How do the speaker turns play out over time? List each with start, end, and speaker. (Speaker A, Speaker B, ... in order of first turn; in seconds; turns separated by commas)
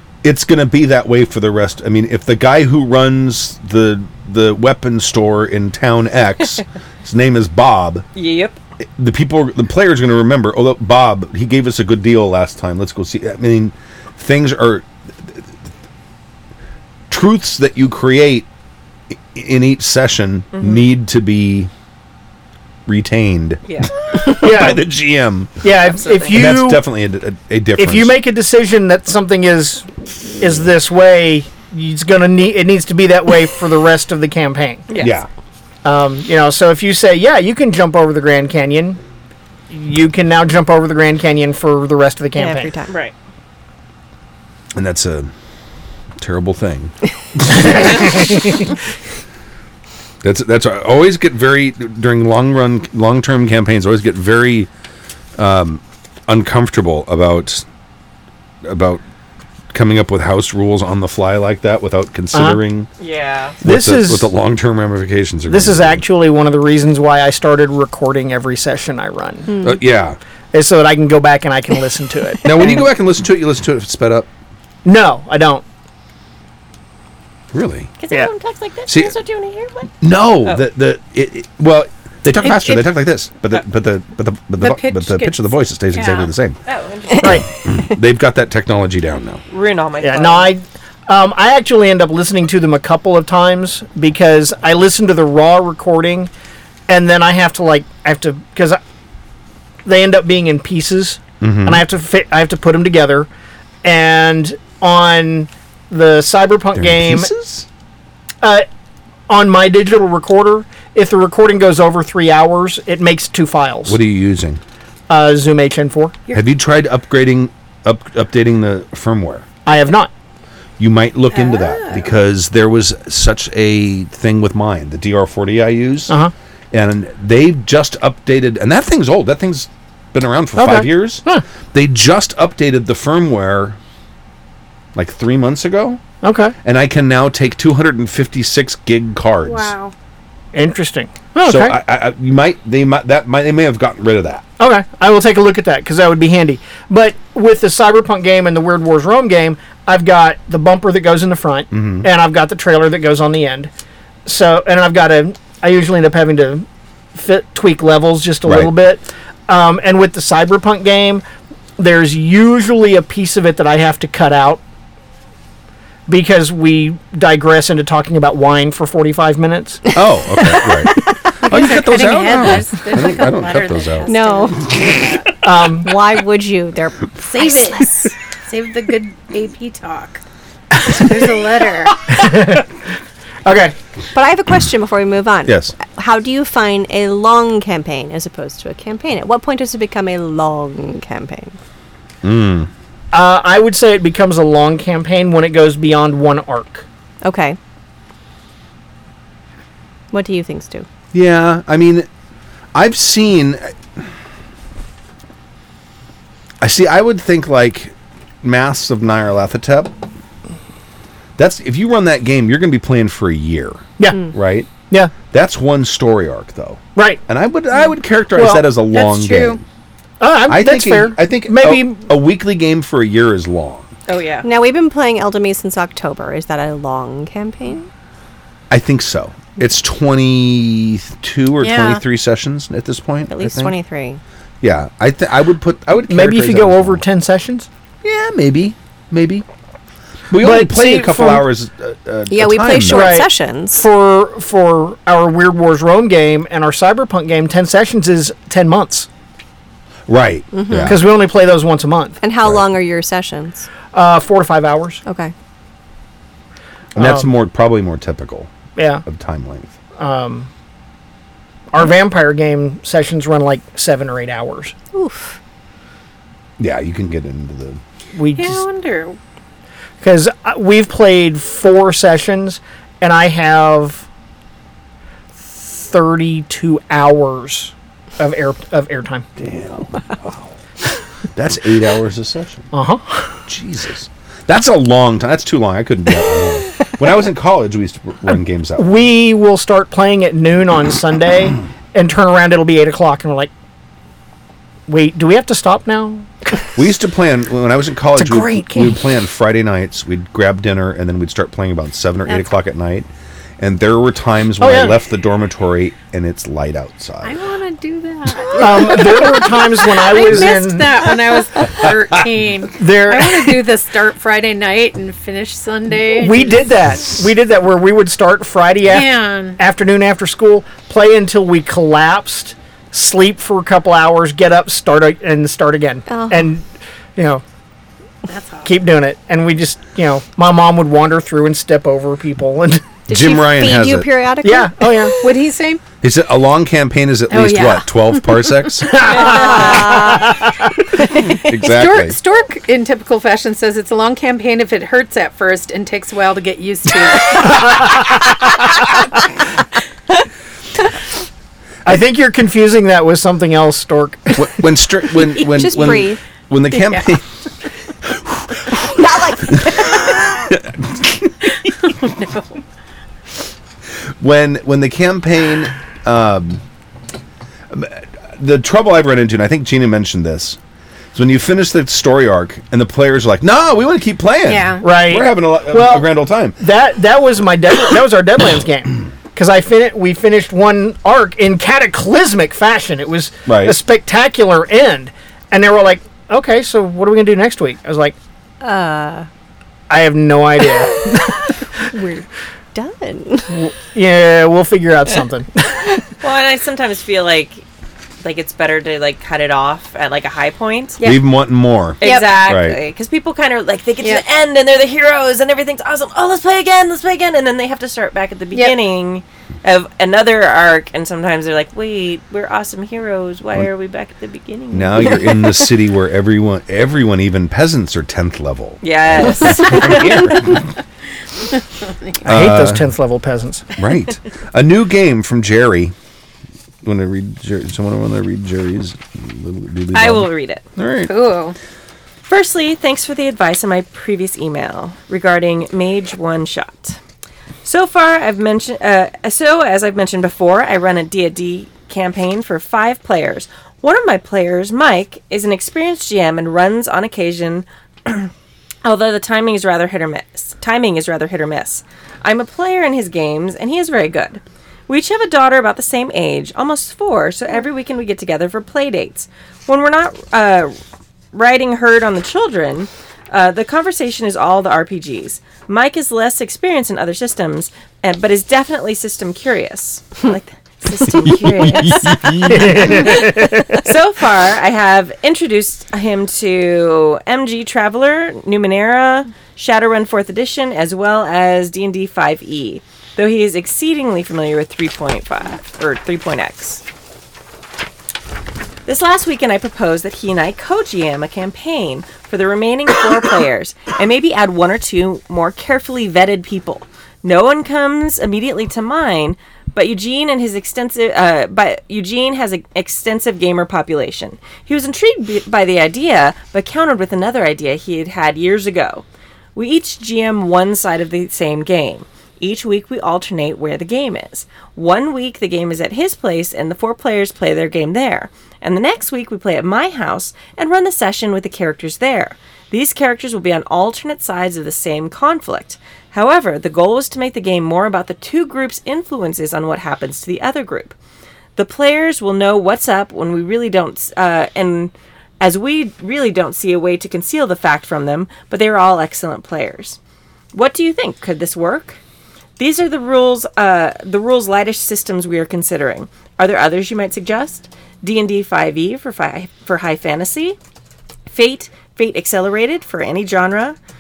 Speaker A: 0.2-8.1, Speaker B: 8.1-8.6, Speaker A: 9.0-15.5, Speaker A: 17.1-18.5, Speaker A: 19.1-21.7, Speaker B: 20.5-20.9, Speaker A: 22.9-25.6, Speaker B: 23.7-23.9, Speaker C: 24.3-24.9, Speaker C: 25.6-26.8, Speaker B: 25.9-26.4, Speaker A: 26.3-28.1, Speaker C: 27.8-29.9, Speaker C: 30.4-34.8, Speaker B: 34.9-35.2, Speaker A: 35.0-35.3, Speaker C: 35.8-39.0, Speaker C: 39.7-42.7, Speaker D: 42.4-42.9, Speaker B: 42.9-43.1, Speaker A: 44.7-45.3, Speaker A: 46.2-48.0, Speaker A: 50.2-54.7, Speaker A: 55.4-57.6, Speaker A: 58.6-59.0, Speaker A: 59.7-62.9, Speaker C: 62.3-62.6, Speaker B: 63.0-63.6, Speaker A: 63.6-66.0, Speaker C: 63.6-64.3, Speaker C: 65.5-69.5, Speaker A: 69.6-70.2, Speaker C: 70.5-72.9, Speaker A: 72.4-74.3, Speaker C: 74.8-75.6, Speaker A: 77.5-77.9, Speaker B: 78.0-79.9, Speaker A: 78.9-79.1, Speaker A: 80.0-86.6, Speaker E: 82.4-82.8, Speaker E: 84.6-86.3, Speaker B: 86.7-87.4, Speaker A: 87.2-89.4, Speaker B: 89.5-90.5, Speaker C: 90.0-96.3, Speaker C: 96.9-98.8, Speaker C: 99.8-103.3, Speaker A: 101.4-101.8, Speaker C: 103.8-107.3, Speaker A: 106.7-107.7, Speaker C: 109.3-114.0, Speaker A: 113.8-114.6, Speaker C: 115.1-116.2, Speaker A: 116.3-119.5, Speaker C: 119.7-120.1, Speaker A: 120.8-126.1, Speaker E: 121.3-122.1, Speaker A: 126.7-133.8, Speaker C: 130.6-131.4, Speaker A: 134.9-136.0, Speaker C: 136.2-136.5, Speaker A: 136.6-139.7, Speaker E: 139.4-139.9, Speaker C: 140.5-141.8, Speaker A: 141.4-144.4, Speaker C: 144.6-153.7, Speaker A: 151.7-152.1, Speaker C: 154.2-161.2, Speaker A: 158.4-158.7, Speaker C: 161.8-164.6, Speaker C: 166.1-169.8, Speaker A: 169.9-174.1, Speaker E: 171.4-175.3, Speaker D: 174.1-175.2, Speaker C: 175.4-175.9, Speaker D: 175.8-178.1, Speaker E: 177.3-180.2, Speaker E: 180.8-182.2, Speaker C: 182.1-182.7, Speaker C: 183.4-183.7, Speaker D: 184.1-191.6, Speaker A: 185.4-185.7, Speaker A: 192.2-192.7, Speaker C: 193.1-196.8, Speaker D: 197.2-197.6, Speaker D: 200.1-200.8, Speaker A: 201.1-202.1, Speaker A: 202.7-204.1, Speaker A: 206.6-209.9, Speaker A: 211.4-214.7, Speaker C: 214.0-215.1, Speaker A: 215.3-219.6, Speaker C: 216.9-217.2, Speaker C: 218.3-218.7, Speaker E: 218.9-219.6, Speaker C: 220.2-222.0, Speaker A: 220.5-223.9, Speaker B: 224.1-224.4, Speaker D: 224.4-227.9, Speaker A: 228.7-233.7, Speaker E: 231.6-232.0, Speaker D: 233.3-234.2, Speaker A: 234.6-237.0, Speaker C: 236.1-237.7, Speaker A: 238.0-239.4, Speaker A: 240.3-243.2, Speaker C: 240.3-241.5, Speaker D: 242.3-243.9, Speaker C: 242.9-249.1, Speaker A: 250.1-251.0, Speaker D: 250.5-251.0, Speaker C: 250.8-252.2, Speaker D: 252.2-253.7, Speaker A: 252.4-252.7, Speaker C: 253.9-255.0, Speaker D: 255.1-255.3, Speaker A: 256.9-258.5, Speaker C: 257.0-257.3, Speaker C: 258.8-259.0, Speaker A: 259.0-259.7, Speaker C: 260.0-260.5, Speaker C: 261.7-264.7, Speaker D: 264.9-265.4, Speaker A: 266.6-267.8, Speaker C: 268.1-268.6, Speaker E: 268.3-269.2, Speaker C: 270.0-274.1, Speaker C: 275.4-279.2, Speaker A: 279.4-280.5, Speaker A: 281.3-282.7, Speaker C: 282.7-283.4, Speaker A: 283.5-289.0, Speaker C: 288.8-293.5, Speaker C: 294.9-296.6, Speaker A: 296.7-307.4, Speaker C: 298.1-298.9, Speaker C: 304.6-304.9, Speaker E: 307.2-316.7, Speaker C: 308.6-310.9, Speaker D: 308.7-309.4, Speaker C: 312.8-313.5, Speaker C: 316.2-327.4, Speaker E: 318.9-319.6, Speaker D: 326.1-326.5, Speaker E: 328.2-328.7, Speaker C: 328.6-332.9, Speaker D: 333.1-335.4, Speaker A: 333.1-334.1, Speaker C: 334.4-335.1, Speaker E: 335.2-335.8, Speaker A: 336.0-338.9, Speaker E: 337.3-340.1, Speaker C: 338.9-340.6, Speaker D: 339.1-341.6, Speaker A: 341.1-342.2, Speaker E: 341.6-347.9, Speaker C: 347.5-348.4, Speaker C: 351.8-354.5, Speaker A: 354.3-357.2, Speaker D: 355.4-356.2, Speaker E: 356.7-357.1, Speaker A: 358.0-358.9, Speaker D: 358.8-360.5, Speaker A: 359.4-361.5, Speaker E: 361.8-362.6, Speaker A: 364.2-366.6, Speaker A: 367.7-370.6, Speaker A: 371.1-376.6, Speaker E: 374.4-374.8, Speaker C: 374.8-388.1, Speaker A: 383.5-383.8, Speaker D: 388.6-389.3, Speaker C: 389.9-391.4, Speaker D: 391.8-393.5, Speaker C: 393.5-395.8, Speaker B: 396.2-397.6, Speaker B: 398.2-401.0, Speaker A: 401.0-402.8, Speaker B: 402.0-415.3, Speaker E: 402.0-402.3, Speaker A: 414.7-420.7, Speaker B: 418.8-420.3, Speaker E: 421.6-422.1, Speaker A: 422.2-422.8, Speaker C: 422.2-423.6, Speaker A: 423.8-425.9, Speaker A: 426.8-431.1, Speaker B: 429.9-430.6, Speaker E: 431.1-431.6, Speaker B: 432.2-437.0, Speaker B: 437.6-448.3, Speaker B: 448.8-460.8, Speaker B: 461.3-472.0, Speaker D: 470.9-473.3, Speaker A: 471.2-472.4, Speaker C: 472.5-473.9, Speaker B: 473.8-486.8, Speaker B: 488.9-530.9, Speaker B: 531.5-540.0, Speaker B: 540.5-542.0, Speaker B: 542.6-550.6, Speaker B: 551.3-553.8